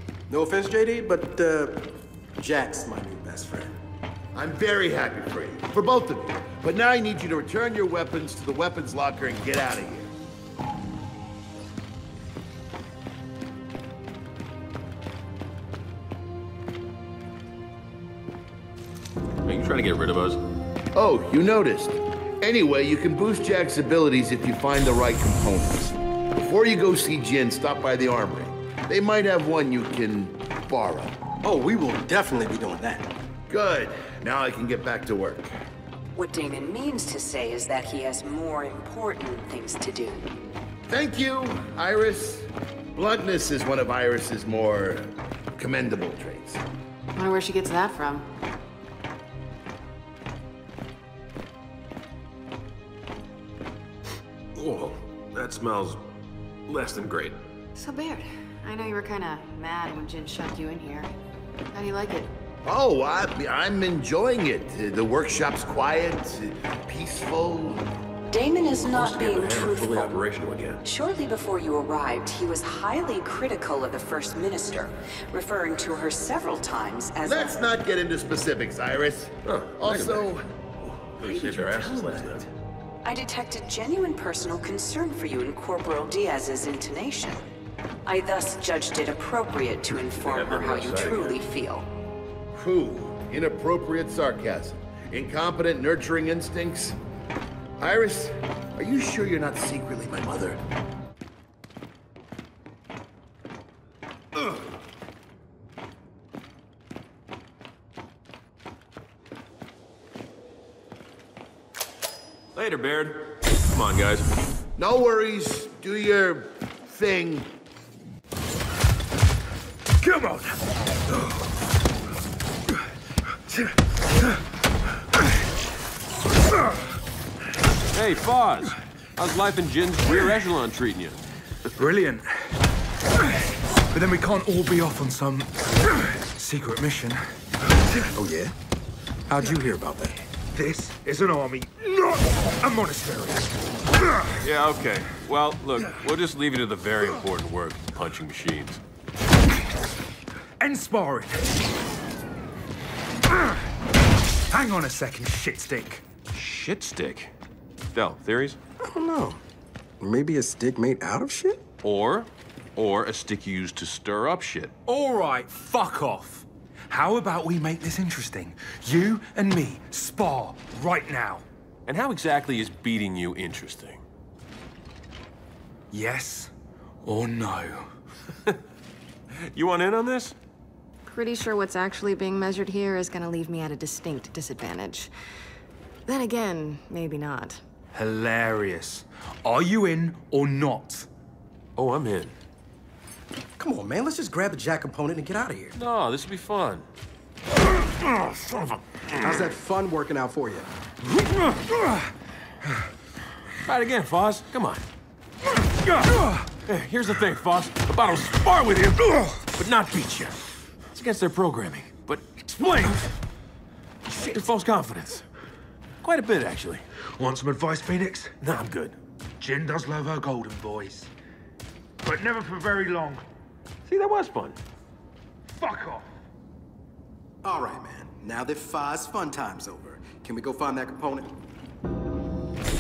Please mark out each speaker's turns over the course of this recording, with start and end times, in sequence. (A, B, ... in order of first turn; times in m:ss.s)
0:00.3-0:03.8 A
0:04.3-0:10.1 B
0:19.4-0:20.4 C
0:21.0-0:31.2 B
0:31.4-0:33.1 A
0:33.5-0:35.6 B
0:36.1-0:40.3 D
0:40.9-0:46.6 B
0:47.2-0:48.3 E
0:54.6-0:56.0 C
0:56.7-0:57.4 C
0:57.8-1:01.1 E
1:01.7-1:02.3 E
1:02.6-1:07.8 B
1:08.3-1:10.1 D
1:08.8-1:10.8 C
1:10.8-1:17.6 D
1:17.2-1:20.4 B
1:19.4-1:20.3 C
1:20.9-1:22.5 C
1:21.2-1:22.3 B
1:23.0-1:27.5 D
1:28.0-1:31.9 D
1:30.1-1:31.4 C
1:32.5-1:37.0 B
1:37.8-1:40.6 B
1:52.6-1:54.3 C
1:54.8-1:57.5 B
2:00.0-2:00.6 F
2:07.9-2:11.2 C
2:11.8-2:12.3 F
2:13.9-2:17.2 F
2:18.2-2:18.5 A
2:19.3-2:20.2 A
2:20.5-2:23.5 F
2:24.0-2:24.4 F
2:24.4-2:28.8 C
2:30.6-2:31.5 F
2:34.5-2:36.0 F
2:36.3-2:37.3 C
2:37.9-2:38.6 C
2:38.8-2:39.4 A
2:40.0-2:41.6 A
2:41.8-2:44.7 C
2:44.9-2:51.4 F
2:51.9-2:54.0 C
2:55.9-2:56.5 F
2:57.0-2:57.9 F
2:59.5-3:00.4 C
3:01.1-3:05.1 E
3:06.1-3:07.6 E
3:07.9-3:11.1 F
3:11.8-3:12.3 C
3:13.6-3:15.8 A
3:15.8-3:16.9 C
3:19.2-3:20.7 A
3:21.3-3:22.0 F
3:23.6-3:24.8 C
3:25.9-3:26.3 F
3:26.7-3:30.4 C
3:30.9-3:33.1 C
3:34.1-3:35.2 C
3:36.0-3:37.0 C
3:37.2-3:38.4 F
3:38.4-3:39.0 C
3:39.4-3:41.1 F
3:42.0-3:43.2 F
3:43.9-3:44.6 C
3:45.5-3:46.0 F
3:47.4-3:51.3 A